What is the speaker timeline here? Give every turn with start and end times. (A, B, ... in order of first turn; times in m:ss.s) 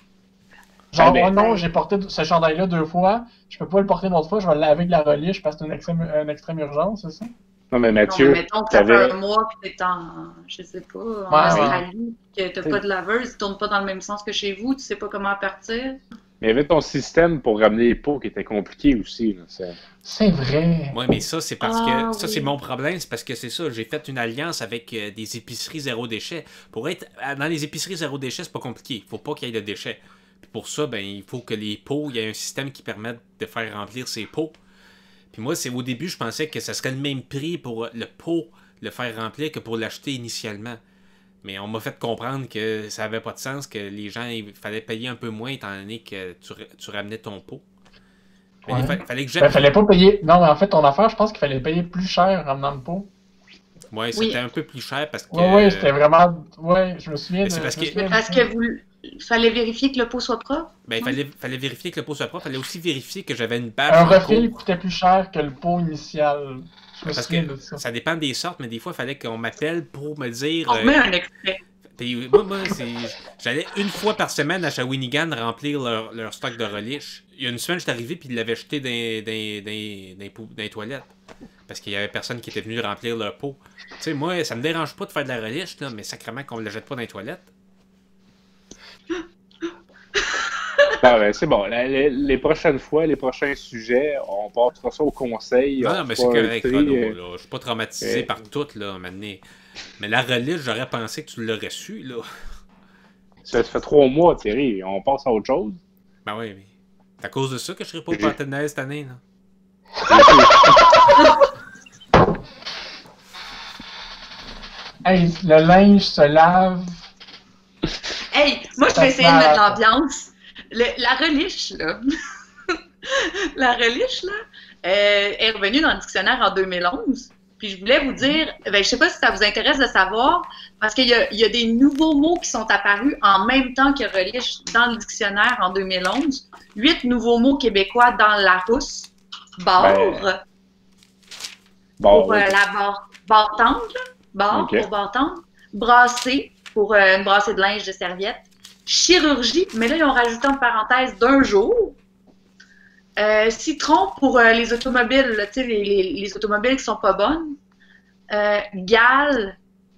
0:00.9-0:07.3 A
0:01.0-0:01.6 B
0:07.7-0:09.1 B
0:08.1-0:16.0 C
0:11.3-0:11.8 A
0:11.5-0:11.8 B
0:16.4-0:19.8 B
0:20.0-0:21.0 A
0:20.9-0:34.6 D
0:21.6-0:22.5 C
0:35.3-0:40.8 D
0:41.4-0:47.6 D
0:48.6-0:49.7 D
0:48.7-0:53.1 A
0:53.9-0:56.0 D
0:55.3-0:58.5 A
0:57.4-0:58.0 D
0:57.9-1:01.1 C
1:00.8-1:04.6 D
1:03.9-1:07.8 A
1:07.1-1:11.0 D
1:10.7-1:11.6 C
1:11.9-1:21.1 D
1:21.7-1:27.5 D
1:30.2-1:30.9 C
1:31.0-1:37.2 B
1:35.8-1:39.4 D
1:38.0-1:38.3 B
1:40.0-1:42.2 D
1:43.4-1:45.8 B
1:46.2-1:49.2 D
1:50.1-1:50.9 B
1:55.0-1:57.1 A
1:58.3-2:02.0 C
1:58.9-1:59.8 A
2:02.7-2:20.4 C
2:19.8-2:20.3 B
2:22.0-2:22.5 B
2:22.1-2:32.0 C
2:24.5-2:24.9 B
2:33.2-2:37.6 C
2:38.3-2:39.6 C